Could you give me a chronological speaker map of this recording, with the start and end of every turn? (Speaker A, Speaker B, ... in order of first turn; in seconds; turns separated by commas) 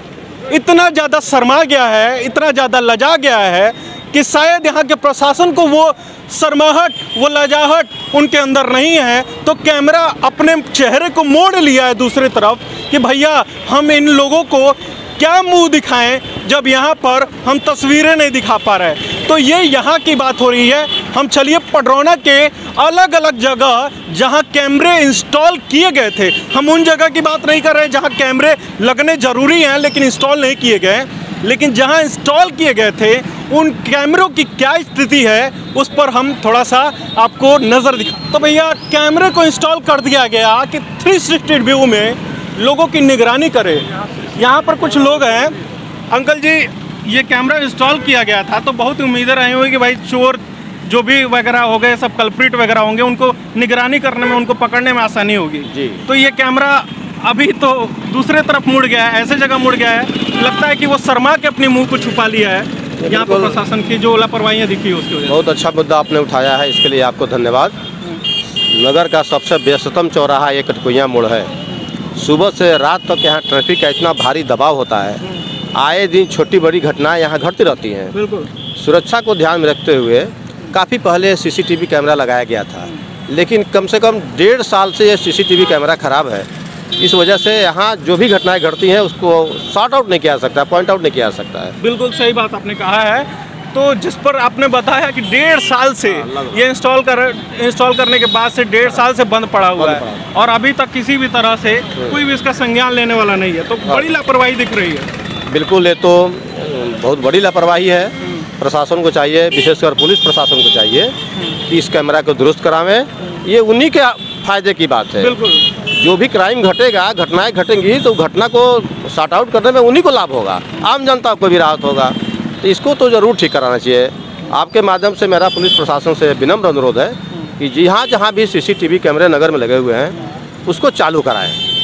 Speaker A: 0.5-45.5, Speaker A: 46.1-65.4, Speaker B: 55.7-56.0, Speaker B: 63.0-63.5, Speaker B: 65.3-67.8, Speaker B: 68.7-71.5, Speaker B: 72.2-75.2, Speaker B: 75.7-78.1, Speaker A: 78.1-78.5, Speaker B: 78.8-91.7, Speaker A: 91.8-105.1, Speaker B: 96.2-96.6, Speaker B: 99.8-100.2, Speaker B: 105.5-111.1, Speaker B: 111.6-130.1, Speaker A: 115.2-115.7, Speaker B: 130.7-131.6